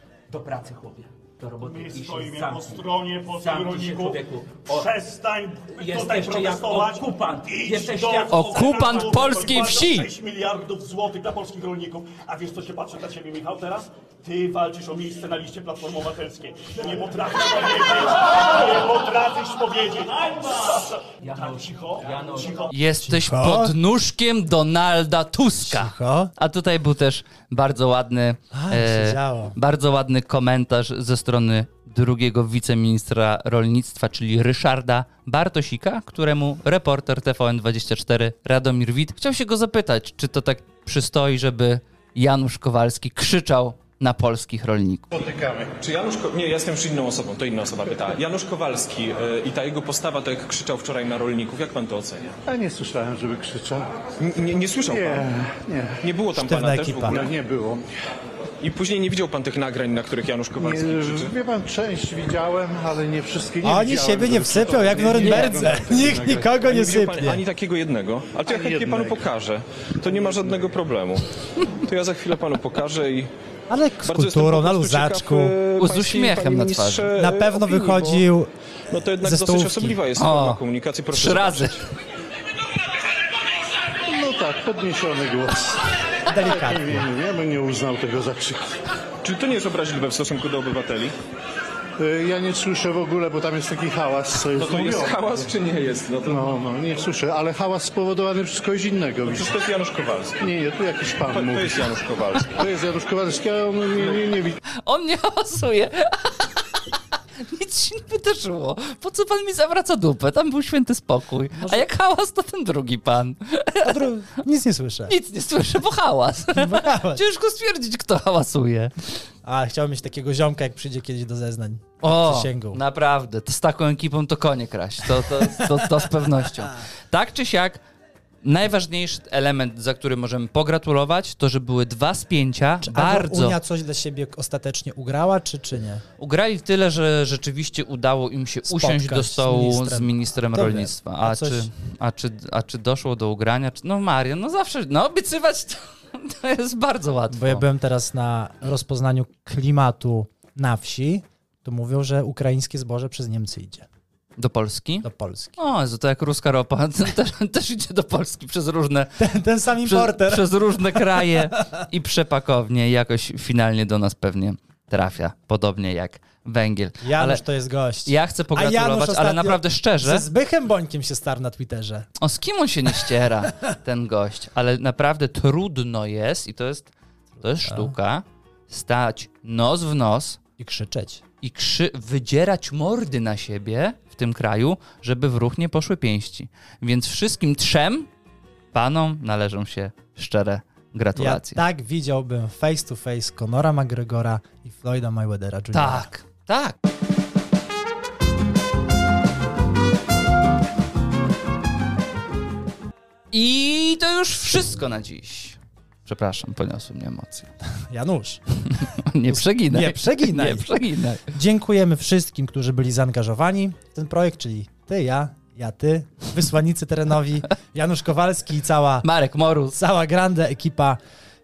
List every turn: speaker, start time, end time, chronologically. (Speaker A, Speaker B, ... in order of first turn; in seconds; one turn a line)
Speaker A: 0.3-4.9
Speaker B: 1.6-22.7
Speaker A: 5.7-9.4
Speaker C: 8.3-10.1
Speaker A: 21.2-22.6
Speaker C: 22.7-45.1
Speaker D: 23.0-23.8
Speaker D: 25.6-26.3
Speaker D: 28.5-29.5
Speaker E: 45.1-45.7
Speaker F: 45.8-52.3
Speaker E: 52.5-53.9
Speaker F: 54.2-55.2
Speaker E: 54.8-56.0
Speaker F: 56.0-57.3
Speaker D: 56.3-57.1
Speaker E: 57.1-57.8
Speaker F: 58.6-61.3
Speaker E: 60.5-66.6
Speaker D: 63.6-67.4
Speaker F: 66.6-73.3
Speaker E: 68.5-69.2
Speaker D: 73.7-75.5
Speaker F: 74.0-78.2
Speaker C: 75.8-77.1
Speaker D: 77.1-78.5
Speaker F: 78.9-81.8
Speaker D: 79.2-80.0
Speaker C: 80.2-80.6
Speaker C: 81.1-81.8
Speaker E: 84.0-88.7
Speaker D: 86.3-87.0
Speaker F: 89.2-91.2
Speaker E: 92.0-95.5
Speaker F: 94.5-96.6
Speaker E: 96.2-99.5
Speaker F: 99.3-100.4
Speaker E: 100.4-104.6
Speaker F: 101.3-102.7
Speaker C: 104.8-106.5
Speaker C: 107.4-114.0
Speaker D: 111.6-111.8
Speaker D: 113.8-115.1
Speaker C: 115.1-118.9
Speaker D: 116.5-117.2
Speaker D: 119.4-122.8
Speaker C: 122.0-127.8
Speaker D: 125.2-126.8
Speaker C: 128.4-133.6
Speaker D: 132.8-136.0
Speaker C: 136.2-147.6
Speaker D: 138.6-141.7
Speaker D: 147.3-153.9
Speaker C: 154.4-159.2
Speaker D: 155.0-155.6
Speaker D: 159.2-161.8
Speaker C: 159.8-167.4
Speaker D: 167.0-172.1
Speaker C: 168.0-170.2
Speaker C: 172.2-180.4
Speaker D: 177.6-177.9
Speaker D: 180.6-181.2
Speaker C: 181.4-188.1
Speaker C: 188.7-191.6
Speaker D: 191.1-196.1
Speaker C: 195.7-196.7
Speaker C: 203.3-207.5
Speaker D: 207.8-208.4
Speaker C: 208.8-211.2
Speaker D: 209.2-210.7
Speaker D: 211.2-219.1
Speaker C: 219.0-219.8
Speaker D: 219.7-221.0